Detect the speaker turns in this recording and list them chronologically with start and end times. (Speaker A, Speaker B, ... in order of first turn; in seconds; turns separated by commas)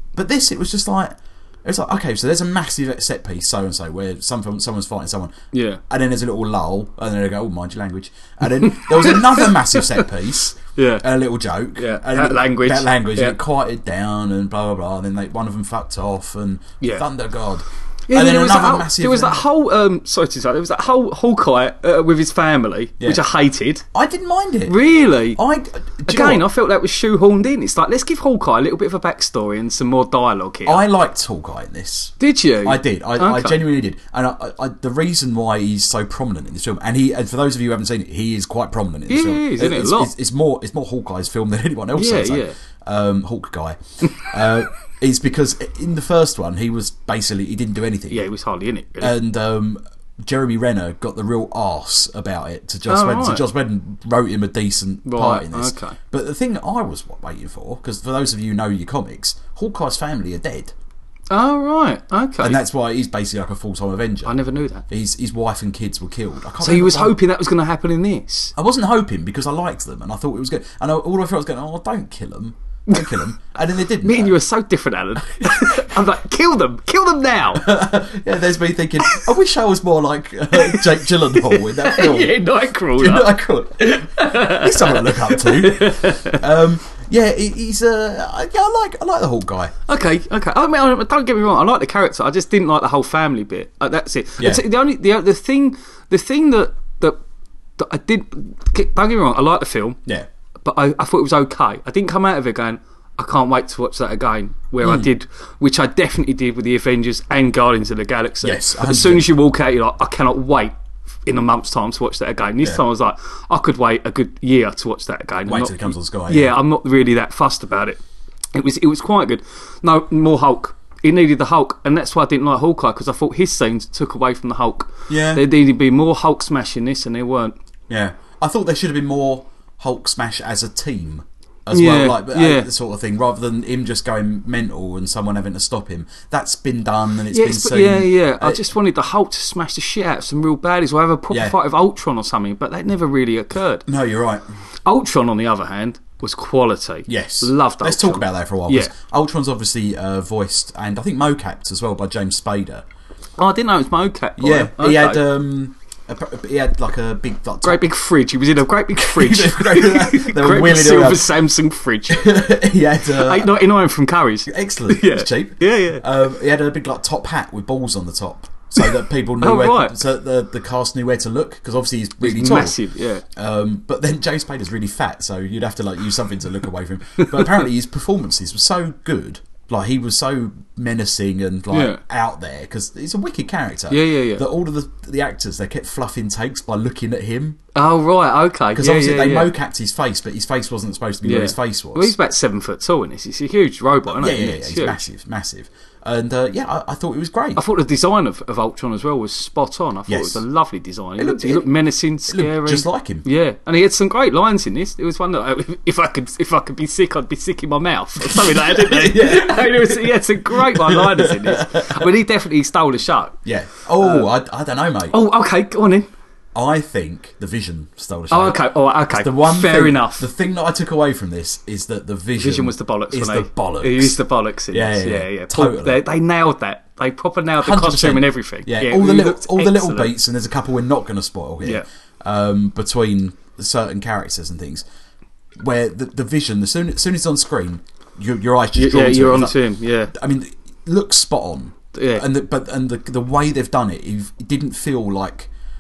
Speaker A: 0.1-5.4, Speaker B: 5.5-5.8, Speaker A: 5.9-19.4, Speaker B: 8.6-9.8, Speaker B: 10.8-11.1, Speaker B: 11.8-13.4, Speaker B: 16.8-17.1, Speaker B: 18.1-23.9, Speaker A: 23.9-24.8, Speaker B: 24.7-25.4, Speaker A: 25.4-26.4, Speaker B: 26.1-30.8, Speaker A: 30.6-48.3, Speaker B: 32.2-33.6, Speaker B: 39.1-40.1, Speaker B: 41.9-42.6, Speaker B: 48.1-49.2, Speaker A: 49.0-60.7, Speaker B: 52.9-53.4, Speaker B: 55.1-56.0, Speaker B: 61.3-62.6, Speaker A: 62.4-67.2, Speaker B: 64.2-64.8, Speaker B: 66.6-68.5, Speaker A: 68.5-74.4, Speaker B: 72.9-73.3, Speaker B: 74.0-77.7, Speaker A: 75.4-76.0, Speaker A: 77.5-82.4, Speaker B: 80.5-86.4, Speaker A: 83.0-89.7, Speaker B: 89.9-97.2, Speaker A: 94.4-94.6, Speaker B: 97.8-100.0, Speaker B: 100.6-118.0, Speaker A: 104.8-105.1, Speaker A: 108.4-109.3, Speaker A: 115.5-116.5, Speaker B: 118.5-127.6, Speaker A: 125.1-125.5, Speaker A: 127.9-138.6, Speaker B: 131.7-132.7, Speaker B: 137.3-143.9, Speaker A: 141.3-141.6, Speaker A: 143.9-144.5, Speaker B: 144.9-148.9, Speaker A: 147.1-152.9, Speaker B: 153.4-155.2, Speaker A: 154.4-157.8, Speaker B: 157.6-162.5, Speaker A: 159.0-161.3, Speaker A: 162.1-163.6, Speaker B: 163.1-166.1, Speaker A: 164.5-172.8, Speaker B: 168.8-170.0, Speaker B: 172.2-173.2, Speaker A: 173.3-187.6, Speaker B: 177.2-177.7, Speaker B: 181.7-182.0, Speaker B: 183.9-184.4, Speaker B: 187.8-189.5, Speaker A: 188.8-192.1, Speaker B: 191.2-195.0, Speaker A: 194.1-197.6, Speaker B: 197.6-213.4, Speaker A: 200.1-200.4, Speaker A: 201.2-201.7, Speaker A: 202.3-203.2, Speaker A: 208.2-212.1, Speaker A: 213.4-215.2, Speaker B: 214.0-214.3, Speaker B: 215.1-216.1, Speaker A: 216.5-224.2, Speaker B: 218.3-220.3, Speaker B: 222.4-230.1, Speaker A: 224.7-226.0, Speaker A: 227.6-234.8, Speaker A: 235.6-239.6, Speaker B: 238.8-240.1, Speaker A: 240.1-245.5, Speaker B: 241.9-242.2